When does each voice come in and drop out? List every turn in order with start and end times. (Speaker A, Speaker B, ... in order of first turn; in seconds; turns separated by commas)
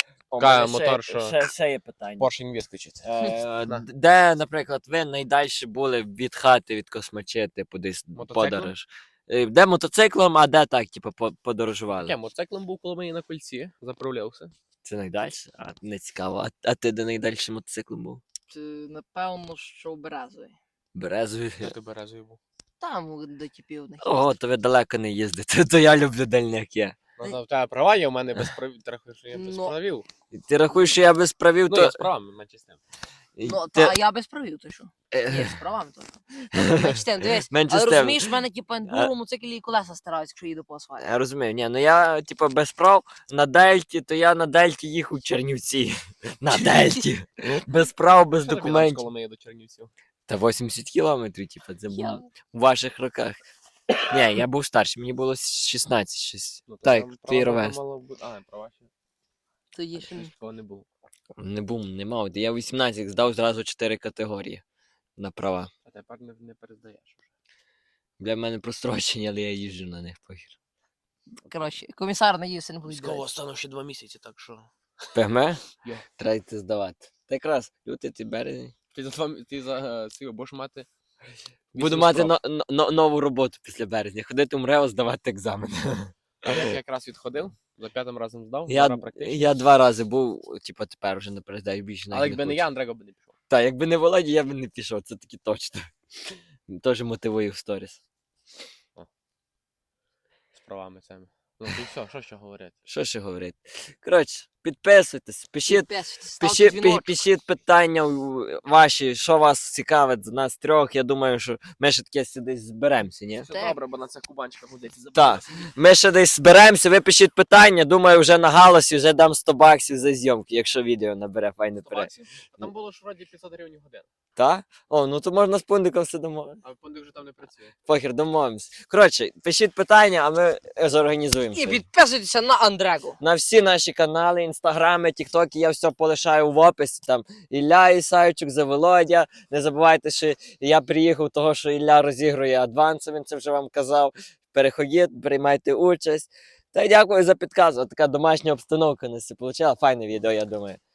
Speaker A: 0.3-2.3, Speaker B: 0.4-1.4, Speaker B: 2.2-3.1, Speaker A: 3.0-12.2, Speaker B: 8.2-8.7, Speaker B: 12.0-14.5, Speaker A: 14.8-18.2, Speaker C: 18.5-20.6, Speaker A: 20.9-21.8, Speaker B: 21.6-22.4, Speaker C: 22.8-24.2, Speaker A: 24.0-27.0, Speaker B: 27.2-30.1, Speaker C: 29.3-29.7, Speaker A: 30.3-32.1, Speaker B: 31.7-32.8, Speaker A: 33.4-33.9, Speaker C: 33.5-41.1, Speaker A: 35.1-35.5, Speaker A: 36.5-38.3, Speaker A: 41.0-49.1, Speaker C: 46.5-47.0, Speaker B: 48.4-49.9, Speaker A: 50.3-53.4, Speaker C: 51.9-52.3, Speaker A: 54.1-57.8, Speaker B: 56.7-58.9, Speaker C: 59.7-60.3, Speaker B: 60.0-60.9, Speaker A: 61.4-64.6, Speaker A: 65.2-65.7, Speaker B: 65.8-67.3, Speaker A: 68.2-70.5, Speaker C: 71.5-73.2, Speaker B: 72.9-74.7, Speaker A: 75.1-78.7, Speaker B: 78.9-80.9, Speaker B: 81.7-82.3, Speaker A: 81.7-86.8, Speaker B: 86.4-89.5, Speaker A: 88.7-92.6, Speaker B: 92.1-93.4, Speaker A: 93.5-98.0, Speaker B: 100.5-102.7, Speaker A: 102.9-113.5, Speaker C: 105.7-107.3, Speaker B: 113.5-115.7, Speaker C: 113.5-113.8, Speaker A: 115.2-122.1, Speaker B: 121.8-124.1, Speaker A: 124.4-126.6, Speaker B: 126.6-127.8, Speaker A: 127.9-131.8, Speaker C: 131.5-133.2, Speaker A: 133.2-150.8